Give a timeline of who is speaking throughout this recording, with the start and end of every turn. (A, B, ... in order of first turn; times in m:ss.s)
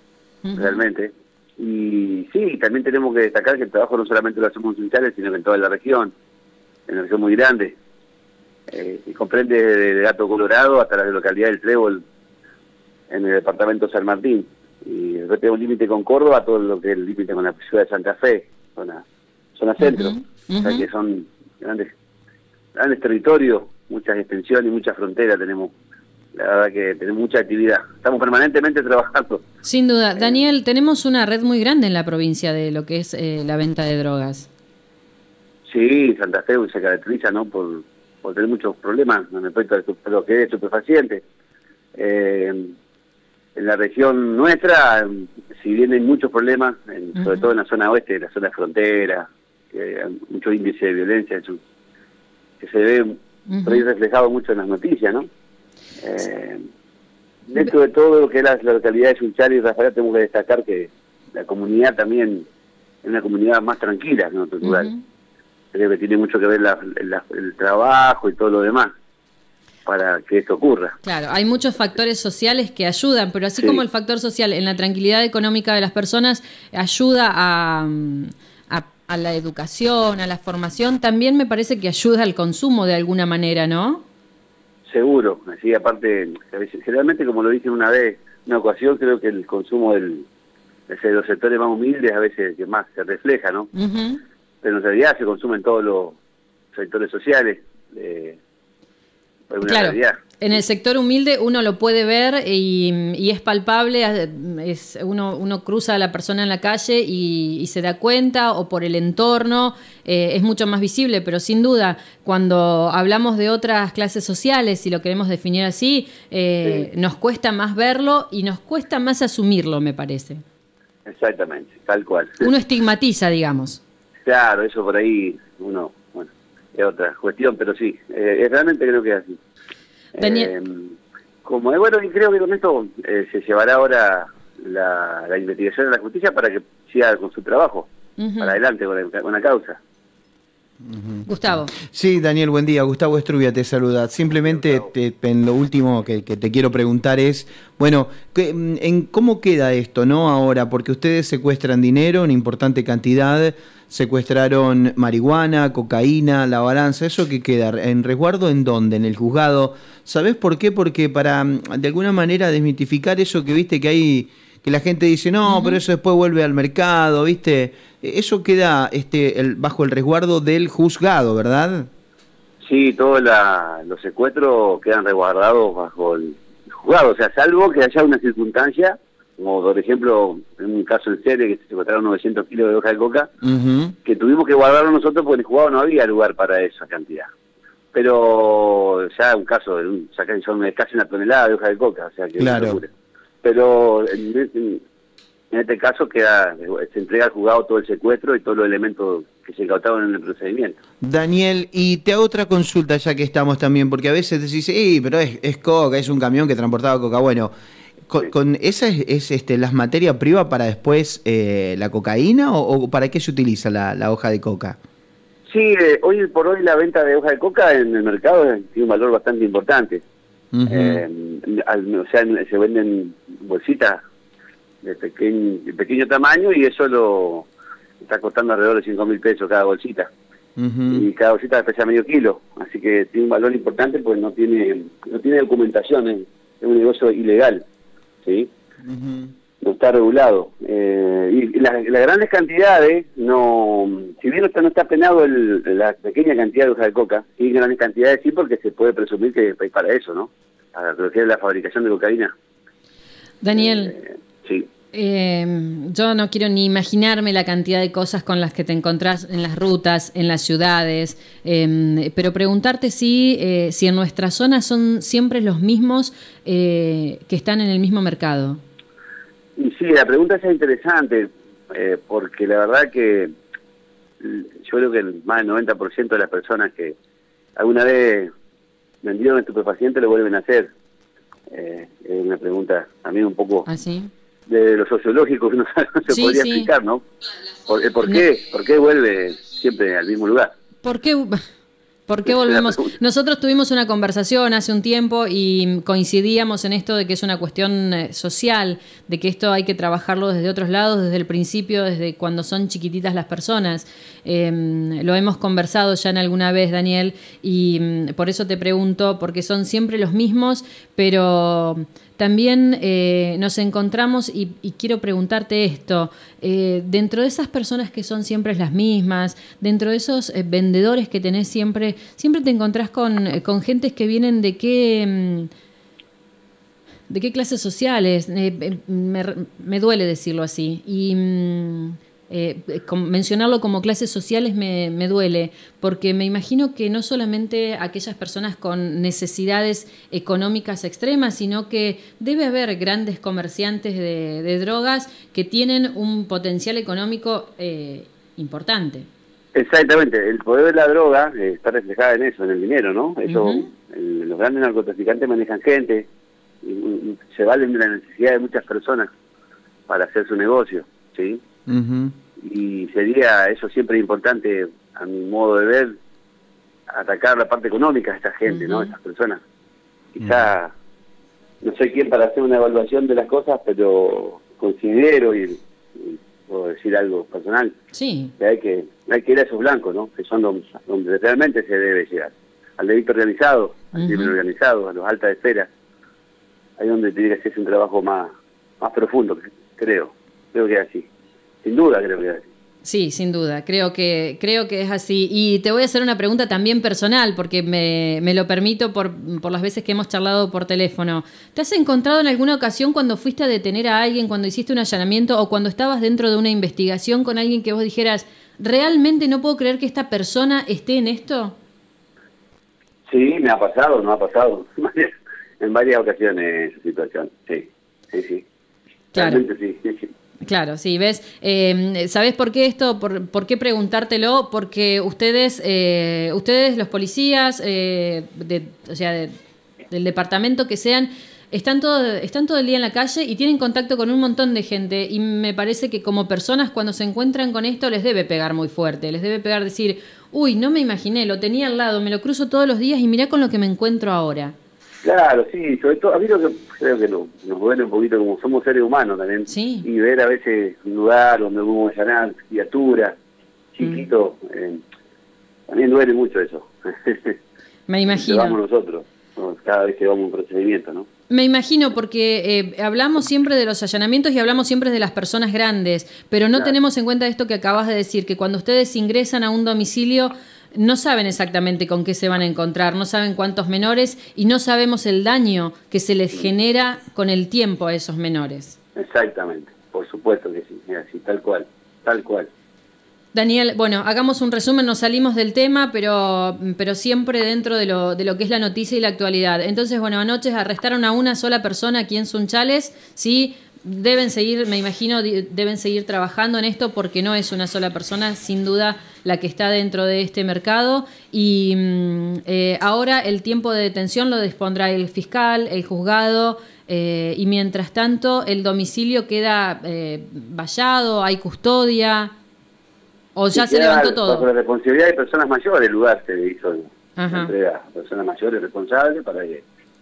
0:00.4-0:00.8 A
0:00.6-0:06.1 B
0:06.9-0:07.8 B
0:08.7-0:12.0 B
0:13.1-0:19.0 B
0:19.6-0:21.9 B
0:19.8-0:20.9 A
0:22.8-0:25.7 B
0:26.4-0:29.4 B
0:29.6-0:34.5 A
0:35.7-0:41.2 B
0:42.0-0:42.7 B
0:43.6-0:51.6 B
0:47.2-0:47.5 A
0:52.6-0:55.3 B
0:53.5-0:53.8 A
0:56.0-0:56.6 B
0:57.5-1:02.4 B
1:03.0-1:04.9 B
1:04.6-1:05.0 A
1:05.7-1:08.9 B
1:09.9-1:11.0 B
1:11.0-1:24.0 A
1:13.6-1:13.8 B
1:24.9-1:30.3 B
1:30.9-1:33.7 B
1:33.8-1:34.2 A
1:34.6-1:36.2 B
1:36.7-1:38.4 B
1:39.5-1:40.6 B
1:39.6-2:00.4 A
1:56.6-1:56.9 B
2:01.1-2:02.5 B
2:02.4-2:03.8 A
2:04.2-2:09.4 B
2:10.2-2:10.5 A
2:10.2-2:17.9 B
2:18.2-2:18.6 A
2:18.4-2:19.8 B
2:20.8-2:51.9 C
2:21.2-2:21.7 A
2:45.5-2:45.8 A
2:52.6-3:03.3 B
3:03.4-3:04.0 C
3:04.0-3:07.3 B
3:07.9-3:12.9 B
3:12.4-3:12.8 C
3:13.4-3:14.8 B
3:15.5-3:20.8 B
3:21.0-3:27.5 C
3:28.1-3:34.8 C
3:35.5-3:40.0 B
3:40.5-3:41.0 C
3:40.7-3:44.0 B
3:44.8-3:47.5 B
3:48.0-3:50.1 B
3:50.6-3:51.1 C
3:50.9-3:57.6 B
3:58.2-3:58.5 B
3:58.8-3:59.3 C
3:59.6-4:12.3 B
4:13.4-4:14.0 A
4:13.5-4:14.7 B
4:14.9-4:28.6 A
4:29.6-4:33.3 B
4:34.2-4:37.0 B
4:37.6-4:38.3 B
4:39.0-4:40.7 B
4:41.5-4:43.7 B
4:43.7-4:44.1 A
4:44.5-4:47.0 B
4:46.1-4:46.7 A
4:47.7-4:50.5 B
4:50.8-4:51.4 A
4:52.1-5:25.5 A
4:52.3-4:52.8 B
5:27.1-5:49.1 A
5:49.5-5:56.1 B
5:53.3-5:53.7 A
5:56.6-5:59.1 B
5:59.9-6:01.4 B
6:01.7-6:02.1 C
6:02.4-6:06.0 B
6:06.9-6:09.4 B
6:08.5-6:08.9 A
6:10.2-6:10.7 B
6:11.6-6:17.8 B
6:17.9-6:18.3 A
6:18.4-6:25.7 B
6:23.9-6:24.3 A
6:26.8-6:31.1 B
6:31.6-6:32.5 B
6:32.8-6:51.6 A
6:53.1-6:58.4 B
6:59.1-6:59.4 A
6:59.2-7:00.1 B
7:00.4-7:09.3 A
7:09.9-7:24.5 A
7:25.0-7:33.2 B
7:29.5-7:29.9 A
7:33.8-7:34.8 B
7:35.7-7:37.4 B
7:37.9-7:38.6 A
7:38.1-7:41.1 B
7:41.3-7:58.8 A
7:59.0-8:02.5 B
8:03.3-8:32.3 A
8:33.4-8:34.5 A
8:33.5-8:39.6 B
8:37.2-8:37.5 A